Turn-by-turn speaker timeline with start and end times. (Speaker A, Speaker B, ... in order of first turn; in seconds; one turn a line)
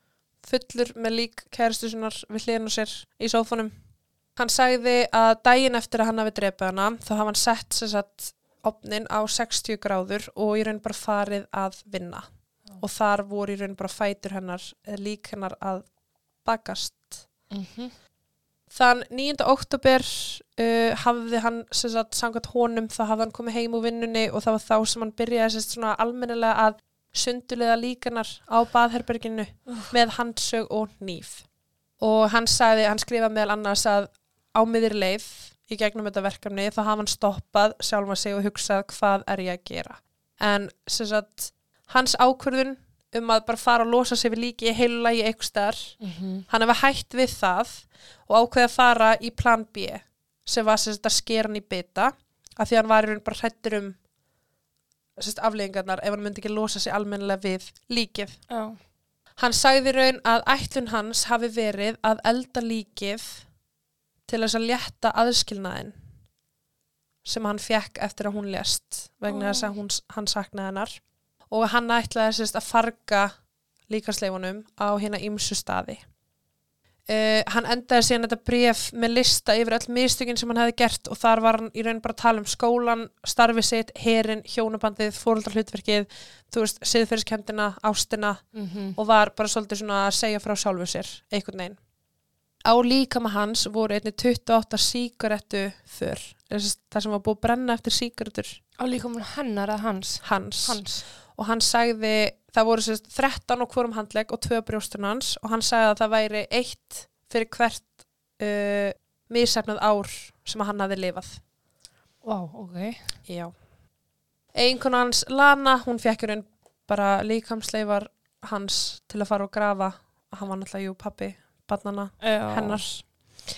Speaker A: 0.4-3.7
Speaker A: 4.4-12.2
Speaker A: 12.8-15.9
Speaker A: 16.4-17.1
Speaker B: 17.5-17.9
Speaker A: 18.7-31.4
Speaker A: 32.0-54.0
Speaker B: 46.0-46.5
Speaker A: 55.2-58.4
Speaker B: 58.5-58.8
Speaker A: 59.4-63.4
Speaker A: 64.3-65.9
Speaker A: 67.2-71.0
Speaker B: 69.3-69.8
Speaker A: 71.5-73.3
Speaker A: 73.9-76.0
Speaker A: 77.1-88.4
Speaker B: 88.5-89.0
Speaker A: 89.0-91.8
Speaker A: 92.6-98.6
Speaker B: 98.8-101.0
Speaker A: 100.2-111.4
Speaker B: 112.2-113.1
Speaker A: 113.2-113.5
Speaker A: 114.5-123.2
Speaker B: 122.2-122.9